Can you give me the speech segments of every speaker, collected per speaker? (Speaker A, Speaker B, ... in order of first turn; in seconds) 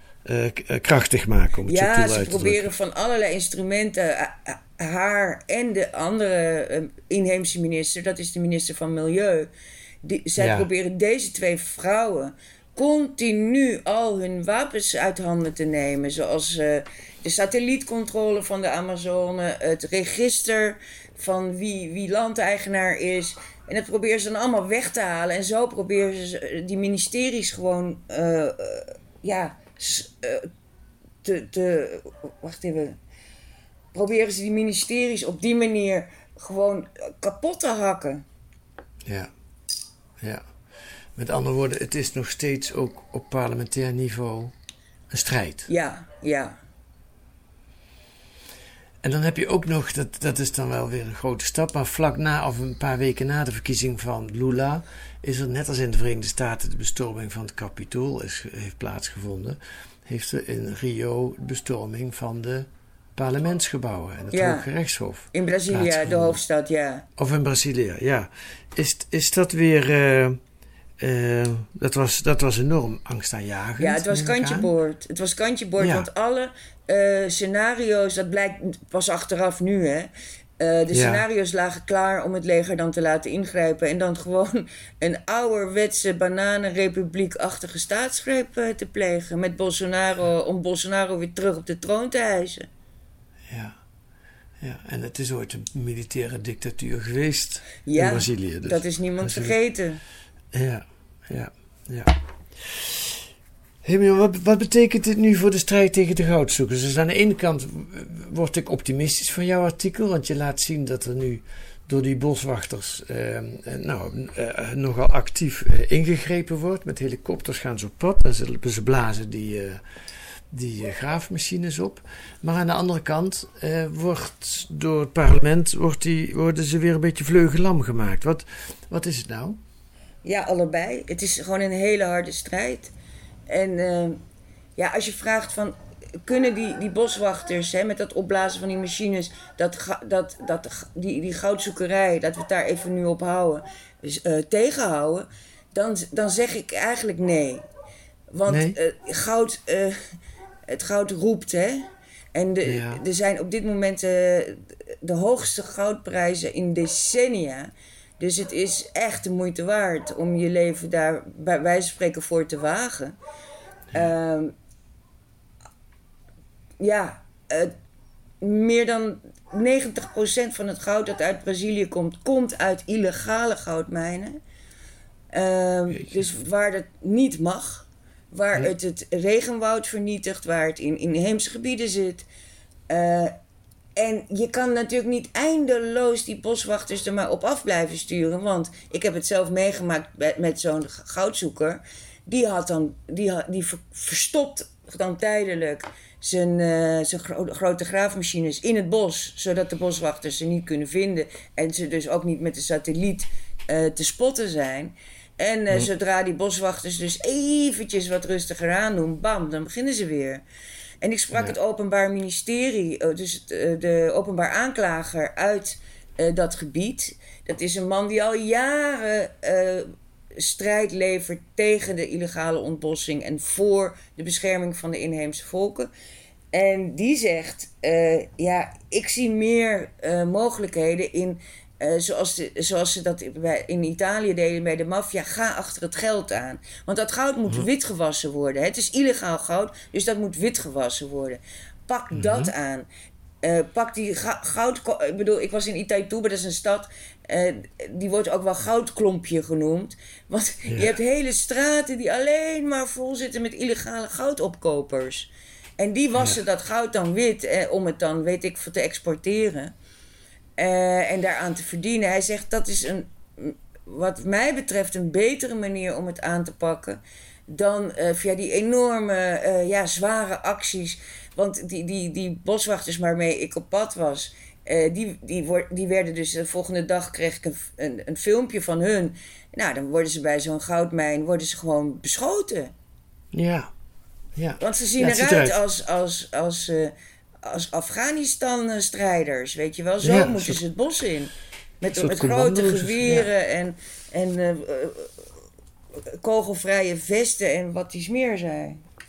Speaker A: 0.2-2.7, 10.4-10.7, 39.0-39.3, 40.2-40.5, 41.1-44.5, 45.1-45.7, 49.0-66.4, 67.2-70.4, 71.0-74.7, 75.8-76.1, 80.9-81.2, 93.5-93.8, 94.6-99.5, 100.5-103.2, 103.8-119.8, 120.5-129.6, 148.5-148.8, 152.6-153.0, 242.1-242.5, 250.7-250.9, 283.3-283.7, 284.4-285.6, 290.0-290.6, 291.9-293.3
Speaker B: 1.6-9.5, 10.0-30.5, 31.2-33.0, 33.9-38.2, 45.7-46.6, 64.3-64.7, 65.3-67.1, 73.8-92.7, 97.8-100.0, 130.2-132.9, 133.5-134.2, 134.8-147.7, 148.3-150.0, 150.7-163.2, 163.9-164.5, 166.8-167.7, 168.4-174.4, 175.3-182.2, 182.9-183.3, 183.9-210.4, 211.0-225.9, 226.5-242.9, 243.4-259.7, 260.6-282.7, 284.6-295.3, 296.1-298.8